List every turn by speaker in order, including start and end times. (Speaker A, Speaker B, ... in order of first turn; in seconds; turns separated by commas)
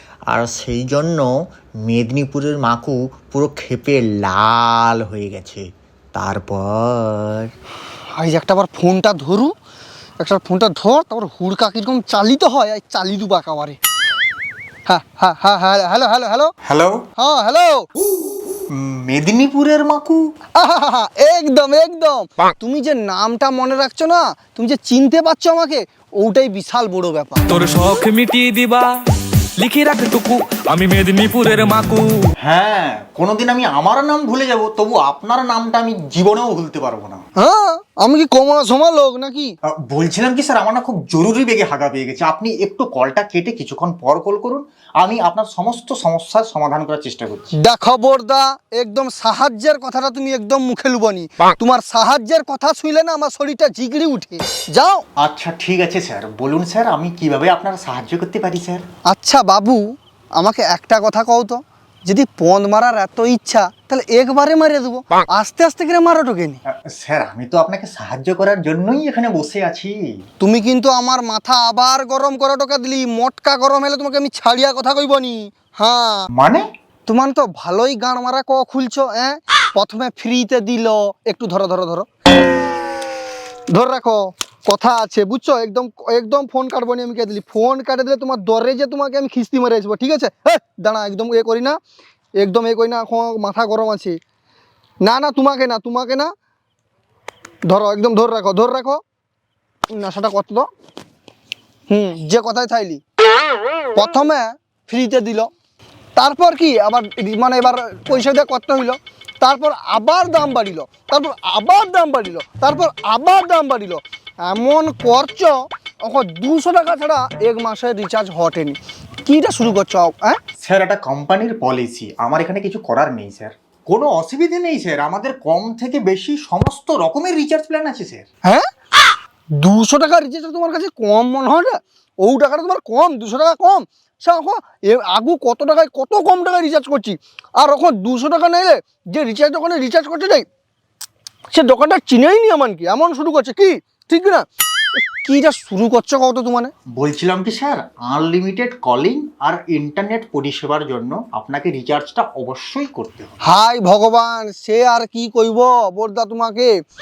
Speaker A: 0.3-1.3, Speaker A: 1.9-5.6, Speaker A: 6.1-7.5, Speaker B: 8.2-9.5, Speaker B: 10.2-13.8, Speaker B: 14.9-16.5, Speaker A: 16.6-17.0, Speaker B: 17.2-17.9, Speaker A: 18.7-20.2, Speaker B: 20.6-27.4, Speaker C: 27.5-28.9, Speaker C: 29.6-32.1, Speaker A: 32.4-37.2, Speaker B: 37.4-39.5, Speaker A: 39.9-47.5, Speaker B: 47.5-55.0, Speaker A: 55.2-58.8, Speaker B: 59.1-59.8, Speaker B: 60.4-66.6, Speaker A: 67.0-70.0, Speaker B: 70.4-76.3, Speaker A: 76.3-76.6, Speaker B: 77.0-82.1, Speaker B: 83.7-91.8, Speaker B: 92.4-94.2, Speaker B: 95.0-96.3, Speaker B: 97.7-99.0, Speaker B: 99.9-100.7, Speaker B: 101.9-103.0, Speaker B: 103.9-105.5, Speaker B: 106.2-120.4, Speaker A: 120.6-128.2, Speaker B: 129.6-140.4, Speaker B: 141.5-144.4, Speaker B: 144.9-146.7, Speaker A: 146.9-153.3, Speaker B: 153.4-156.7